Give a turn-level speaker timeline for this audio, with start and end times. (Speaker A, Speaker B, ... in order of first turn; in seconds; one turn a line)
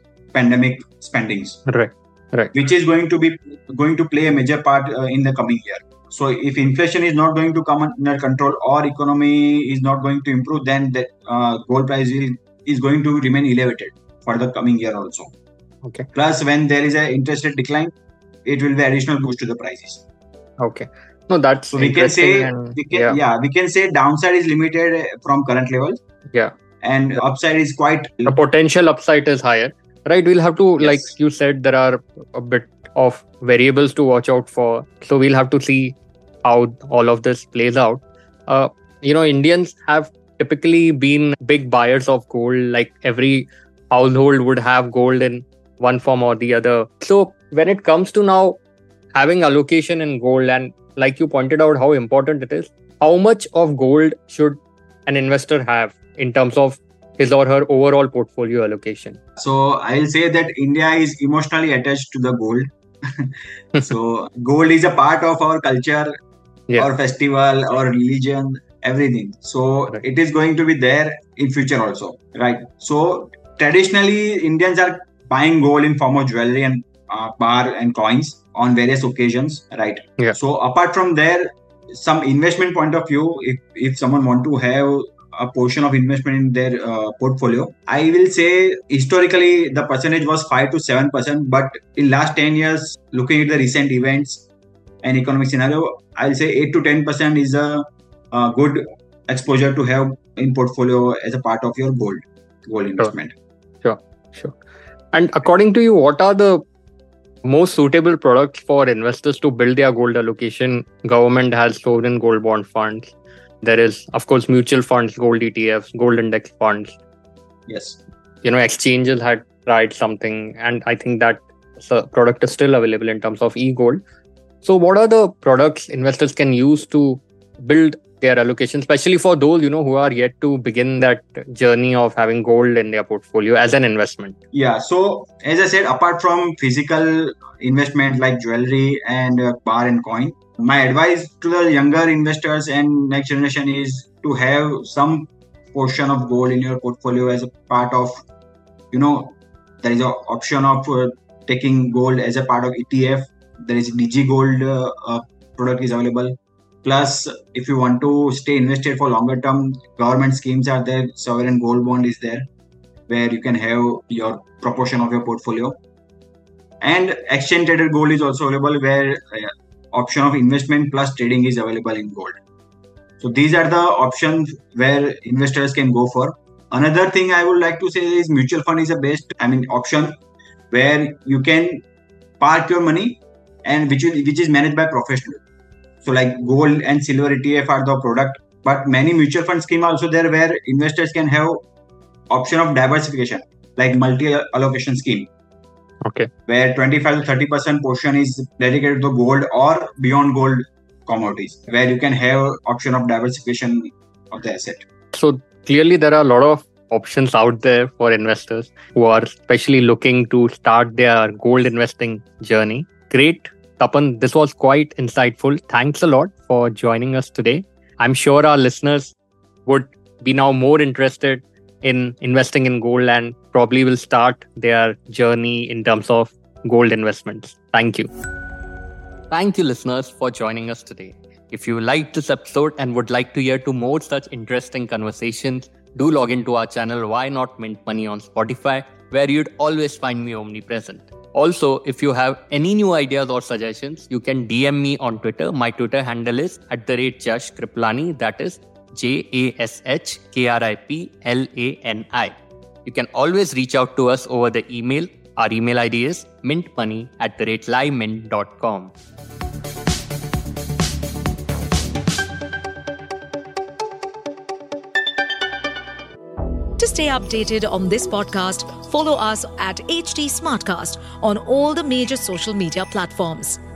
Speaker A: 0.3-1.6
Speaker B: 1.7-2.5
Speaker A: 2.5-15.3
Speaker A: 16.1-17.9
Speaker A: 18.4-20.0
Speaker B: 20.6-23.2
Speaker A: 21.7-26.0
Speaker A: 26.8-28.4
Speaker B: 28.3-48.6
Speaker A: 30.8-31.1
Speaker B: 49.1-59.2
Speaker A: 59.4-66.1
Speaker A: 66.8-94.5
Speaker A: 95.0-103.3
Speaker B: 103.8-104.6
Speaker B: 105.1-106.7
Speaker B: 107.5-117.0
Speaker A: 117.7-118.0
Speaker B: 118.4-124.0
Speaker B: 124.6-134.4
Speaker A: 134.5-148.2
Speaker A: 148.9-162.5
Speaker A: 163.1-165.8
Speaker A: 166.8-172.4
Speaker A: 173.2-180.2
Speaker A: 180.7-181.8
Speaker A: 182.4-185.4
Speaker A: 186.0-191.6
Speaker A: 192.3-195.3
Speaker B: 196.0-196.3
Speaker A: 196.5-204.8
Speaker B: 205.1-219.2
Speaker B: 219.7-228.1
Speaker B: 229.3-258.9
Speaker C: 266.8-273.6